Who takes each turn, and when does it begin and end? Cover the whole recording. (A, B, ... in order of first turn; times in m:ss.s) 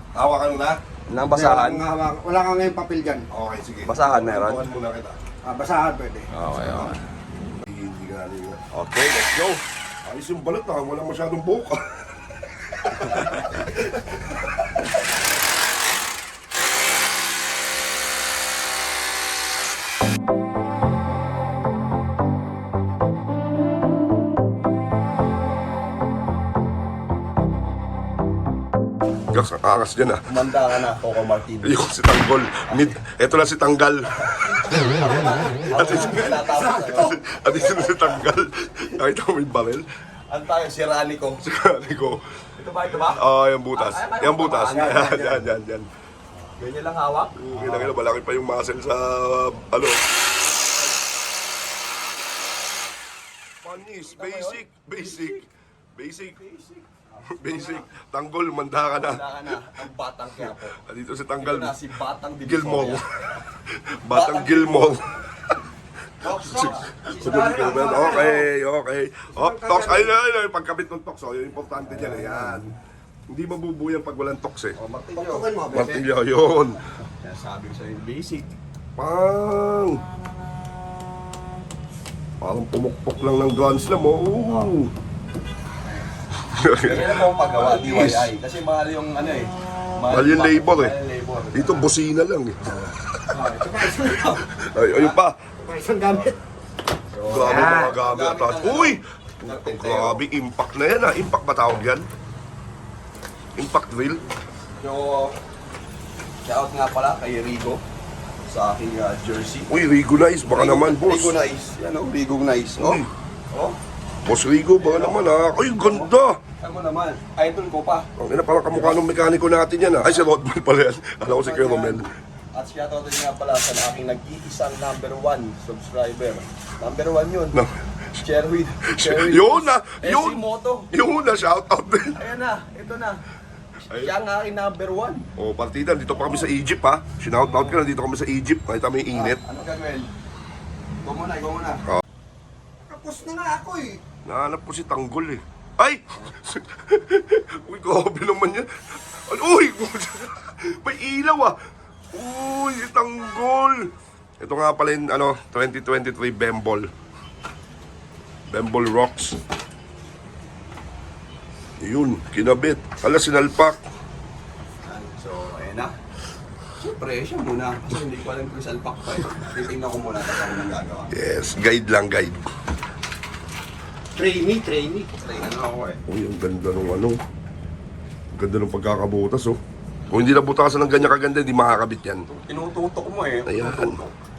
0:00.1-0:00.8 A
0:01.1-0:01.8 B
0:01.3-0:03.3 C
0:03.3-0:05.2 A
0:03.9-0:04.6 B
0:05.4-0:06.3 C
0:06.3-0:07.0 B
0:07.6-0:08.6 A
0:08.7-0:09.6 B
0:10.0-0:14.8 A
0:29.3-0:30.2 A
0:30.3-0:31.8 B
0:31.6-0:39.8 A
0:32.7-0:33.0 B
0:34.6-0:38.3 B
0:35.7-0:36.4 C
0:40.3-0:41.4 B
0:41.4-0:42.2 A
0:42.6-0:43.2 B
0:43.1-0:45.9 A
0:43.7-0:45.5 B
0:46.6-0:47.9 B
0:47.4-0:50.1 A
0:53.6-0:55.4 A
0:54.1-0:55.4 B
0:56.0-0:56.4 A
0:56.4-0:57.9 B
0:57.3-0:59.6 A
0:59.0-1:00.8 B
1:00.8-1:01.8 A
1:01.4-1:03.0 B
1:02.4-1:05.3 A
1:04.1-1:05.1 B
1:06.2-1:08.5 B
1:06.2-1:08.4 C
1:06.4-1:12.7 A
1:09.4-1:10.1 C
1:11.9-1:12.7 C
1:13.3-1:14.8 A
1:14.8-1:15.5 B
1:15.2-1:16.1 C
1:15.7-1:16.8 A
1:17.2-1:18.5 B
1:19.0-1:20.0 A
1:22.4-1:24.9 A
1:26.4-1:28.3 A
1:26.7-1:31.9 B
1:30.1-1:31.0 A
1:31.5-1:33.2 A
1:33.3-1:34.4 B
1:33.3-1:34.4 C
1:34.5-1:35.4 A
1:34.9-1:35.2 B
1:35.6-1:36.4 C
1:37.1-1:40.2 B
1:37.3-1:42.1 A
1:37.4-1:38.0 C
1:43.6-1:44.2 A
1:44.8-1:45.4 B
1:46.4-1:47.8 B
1:48.5-1:49.8 B
1:49.7-1:51.4 A
1:50.5-1:53.8 B
1:52.8-1:53.1 A
1:54.2-1:56.4 A
1:54.8-1:58.1 B
1:58.2-2:02.1 A
1:58.7-1:59.0 B
2:01.4-2:07.6 B
2:07.5-2:07.9 A
2:08.1-2:10.9 B
2:08.9-2:12.2 A
2:12.2-2:13.2 B
2:13.9-2:15.2 B
2:15.4-2:19.4 A
2:19.1-2:20.1 B
2:21.0-2:21.9 B
2:22.9-2:24.0 C
2:24.2-2:31.6 A
2:32.1-2:36.9 A
2:38.5-2:39.4 A
2:41.8-2:43.8 A
2:44.8-2:46.0 B
2:46.8-2:51.1 B
2:51.1-2:52.5 A
2:54.2-2:55.1 C
2:55.2-2:56.0 B
2:56.1-2:57.2 A
2:58.3-2:59.6 A
3:00.1-3:02.3 A
3:02.3-3:04.1 B
3:03.4-3:04.0 A